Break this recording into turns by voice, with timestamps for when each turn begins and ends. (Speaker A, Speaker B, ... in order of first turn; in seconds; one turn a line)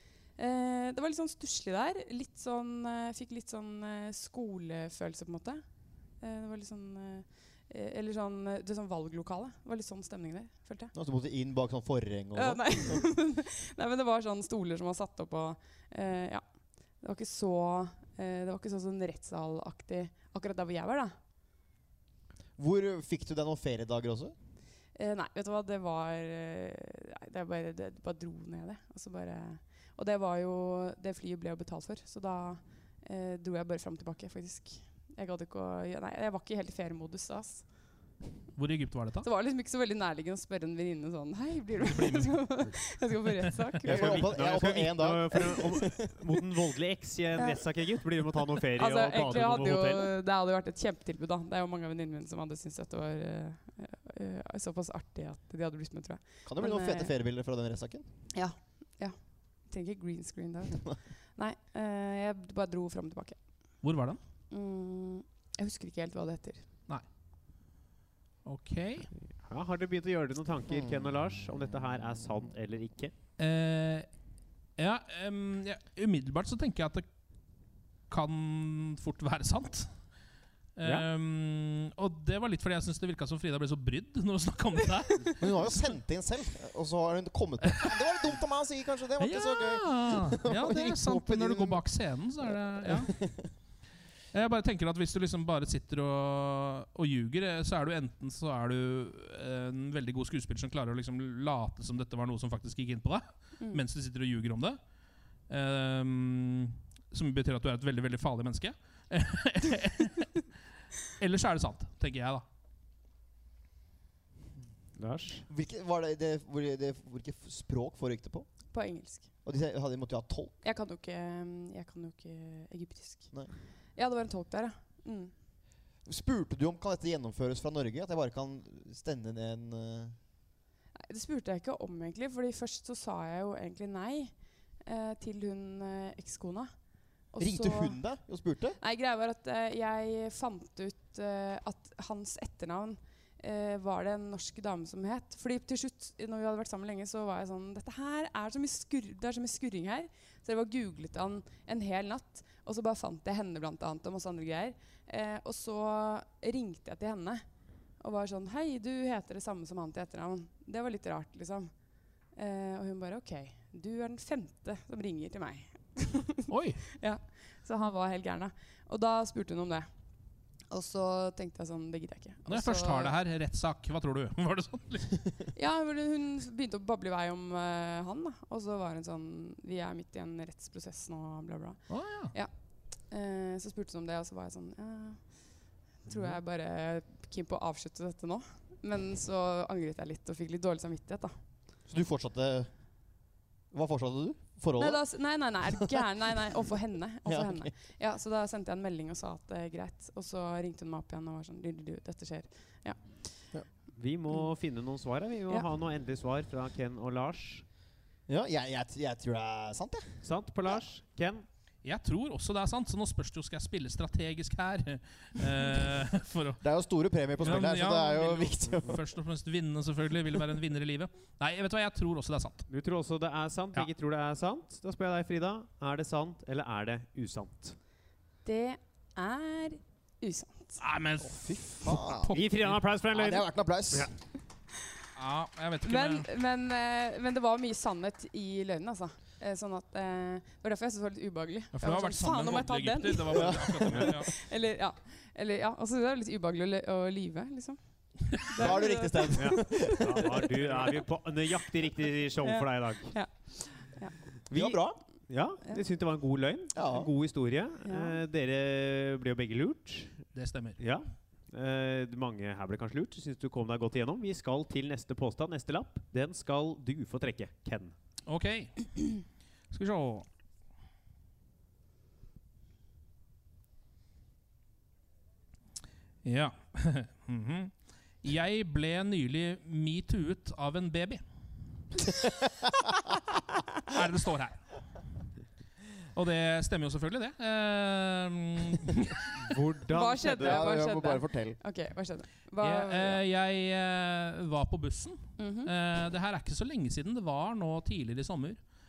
Speaker A: 0.4-5.6
Speaker A: 6.2-10.9
Speaker B: 10.9-13.1
Speaker A: 12.3-16.4
Speaker A: 17.0-21.1
Speaker B: 22.6-24.3
Speaker A: 24.9-37.6
Speaker C: 38.5-39.3
Speaker A: 39.2-44.2
Speaker C: 41.9-42.4
Speaker D: 43.8-50.1
Speaker B: 43.8-46.1
Speaker A: 47.4-47.6
Speaker A: 48.8-57.1
Speaker B: 56.5-58.0
Speaker A: 58.3-59.1
Speaker A: 59.7-63.4
Speaker C: 63.8-64.2
Speaker A: 64.5-66.6
Speaker C: 68.4-69.1
Speaker D: 69.1-73.1
Speaker B: 70.7-71.0
Speaker C: 73.4-74.1
Speaker C: 74.8-77.0
Speaker C: 78.1-79.9
Speaker C: 80.8-85.9
Speaker B: 85.4-91.8
Speaker C: 87.7-88.0
Speaker C: 89.2-93.1
Speaker B: 92.5-93.5
Speaker C: 94.3-104.8
Speaker C: 105.5-110.5
Speaker C: 111.2-112.4
Speaker D: 115.0-115.5
Speaker B: 115.5-118.5
Speaker A: 118.7-119.3
Speaker B: 119.4-120.6
Speaker A: 120.6-123.3
Speaker A: 124.0-125.3
Speaker B: 126.0-130.2
Speaker A: 130.9-134.3
Speaker A: 134.8-136.7
Speaker A: 137.3-138.0
Speaker B: 137.4-138.8
Speaker A: 138.8-157.4
Speaker A: 158.0-161.7
Speaker A: 162.3-169.9
Speaker C: 166.5-166.8
Speaker A: 170.7-173.1
Speaker C: 172.5-175.3
Speaker A: 175.5-181.8
Speaker C: 181.9-182.3
Speaker A: 183.1-185.5
Speaker A: 186.0-191.3
Speaker B: 191.9-192.7
Speaker B: 193.7-195.0
Speaker A: 194.8-203.0
Speaker B: 197.2-197.7
Speaker D: 203.9-207.6
Speaker B: 208.3-210.2
Speaker D: 210.2-211.4
Speaker C: 211.8-216.6
Speaker B: 216.6-219.0
Speaker C: 217.4-222.7
Speaker D: 222.7-227.8
Speaker A: 228.4-230.8
Speaker C: 230.8-232.8
Speaker B: 231.2-232.3
Speaker D: 232.3-234.1
Speaker B: 233.1-234.1
Speaker C: 235.1-236.3
Speaker A: 235.8-249.7
Speaker C: 241.7-244.3
Speaker B: 243.3-244.2
Speaker B: 248.6-250.9
Speaker D: 249.4-253.1
Speaker A: 252.4-254.2
Speaker B: 254.5-255.0
Speaker D: 254.5-260.1
Speaker B: 256.7-257.1
Speaker A: 257.8-258.2
Speaker C: 260.3-260.8
Speaker D: 260.8-267.9
Speaker C: 268.3-269.2
Speaker C: 269.7-270.2
Speaker C: 276.2-281.2
Speaker C: 283.9-284.8
Speaker C: 286.1-289.5
Speaker D: 289.4-290.6
Speaker A: 289.9-293.2
Speaker B: 290.4-291.6
Speaker C: 292.6-298.6
Speaker A: 295.4-295.7